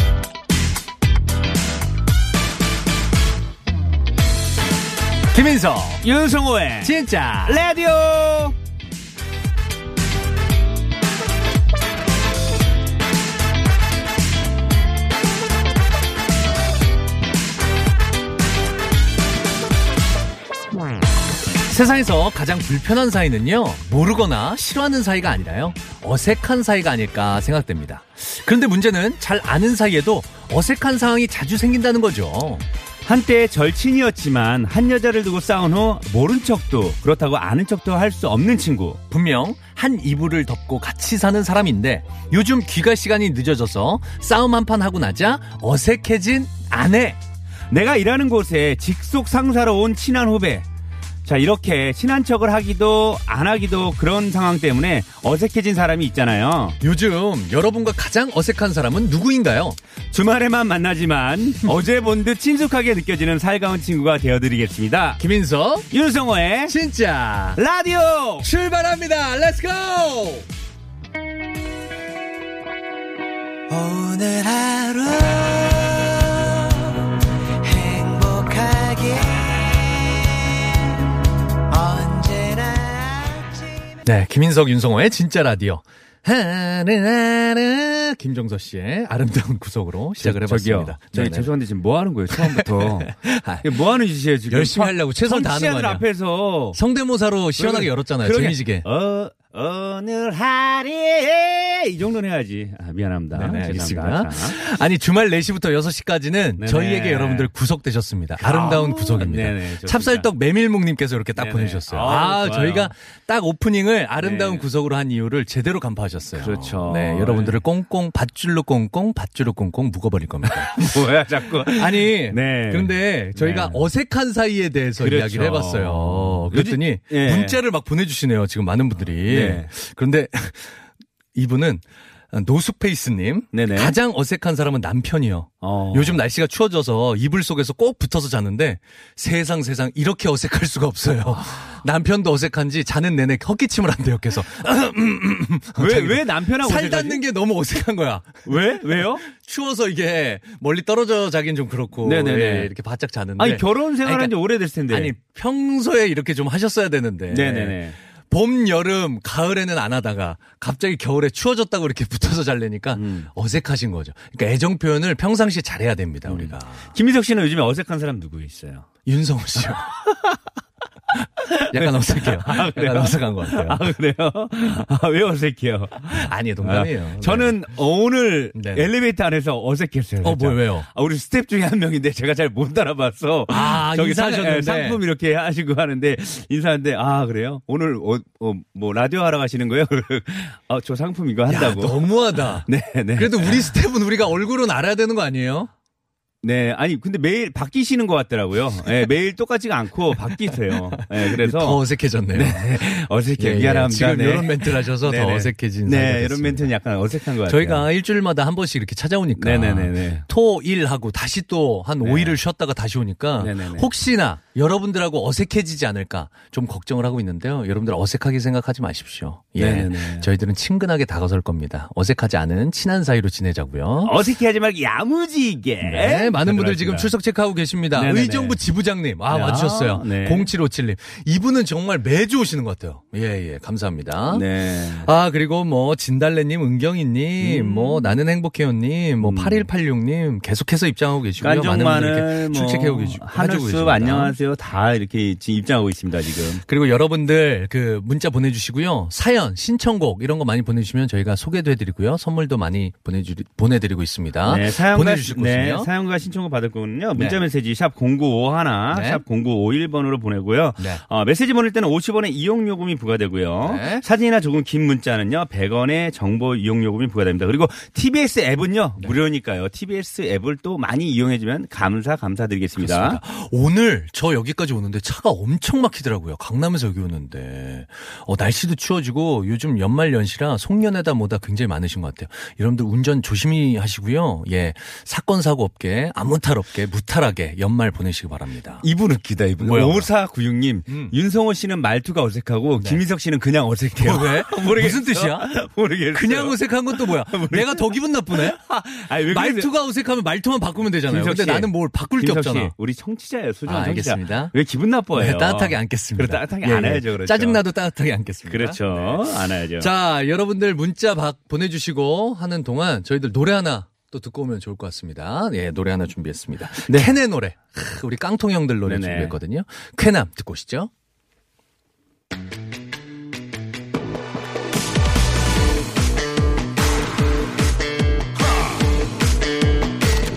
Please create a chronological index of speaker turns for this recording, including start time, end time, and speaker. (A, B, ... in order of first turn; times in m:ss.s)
0:05.3-0:06.0 A
0:06.0-0:08.6 B
0:06.8-0:07.6 A
0:21.6-0:32.6 A
0:33.1-0:39.0 B
0:39.1-0:47.2 A
0:47.7-0:50.6 B
0:51.2-0:56.8 B
0:56.8-0:59.8 A
1:00.1-1:05.2 B
1:05.2-1:05.9 A
1:05.9-1:06.8 B
1:06.7-1:07.6 A
1:07.6-1:08.5 B
1:08.4-1:10.5 A
1:13.8-1:15.8 C
1:17.7-1:19.2 C
1:21.7-1:23.2 C
1:24.0-1:31.5 A
1:30.2-1:36.8 B
1:32.3-1:33.8 A
1:34.5-1:36.0 A
1:36.7-1:38.9 A
1:37.6-1:44.6 B
1:43.4-2:01.0 A
1:46.6-1:47.5 B
1:48.4-1:50.3 B
1:51.4-1:52.9 B
1:54.2-1:54.7 B
1:56.4-1:57.6 B
2:00.7-2:03.8 B
2:01.6-2:10.8 A
2:05.0-2:07.6 B
2:09.3-2:09.7 B
2:11.3-2:34.4 A
2:13.5-2:14.0 B
2:15.6-2:16.2 B
2:21.3-2:21.8 B
2:25.8-2:27.2 B
2:28.4-2:29.2 B
2:32.0-2:32.7 B
2:33.4-2:35.1 B
2:34.9-2:46.9 A
2:37.3-2:38.0 B
2:43.0-2:43.3 B
2:46.3-2:48.9 B
2:49.1-2:50.0 A
2:51.4-3:13.8 B
2:51.7-2:53.9 A
2:56.0-2:57.6 A
2:58.6-2:58.9 A
3:00.2-3:00.9 A
3:03.5-3:05.0 A
3:11.5-3:15.7 A
3:16.4-3:21.8 B
3:20.4-3:22.8 A
3:22.3-3:27.9 B
3:23.4-3:26.7 A
3:27.4-3:44.2 A
3:29.4-3:30.3 B
3:32.0-3:32.4 B
3:33.4-3:33.9 B
3:39.6-3:40.3 B
3:44.0-3:47.1 B
3:45.8-3:54.4 A
3:47.9-3:48.6 B
3:49.3-3:50.5 B
3:54.3-3:55.1 B
3:55.0-4:04.4 A
3:57.4-3:58.1 B
3:59.2-3:59.7 B
4:01.4-4:06.6 B
4:06.7-4:15.9 A
4:14.4-4:33.2 B
4:18.9-4:19.2 A
4:23.6-4:24.0 A
4:32.8-4:48.8 A
4:48.8-4:59.7 B
4:49.6-4:50.1 A
4:50.9-4:51.2 A
4:54.0-4:55.5 A
4:56.1-5:02.7 A
5:01.0-5:07.6 B
5:03.7-5:04.5 A
5:05.1-5:20.9 A
5:08.5-5:09.9 B
5:16.8-5:17.1 B
5:18.9-5:19.4 B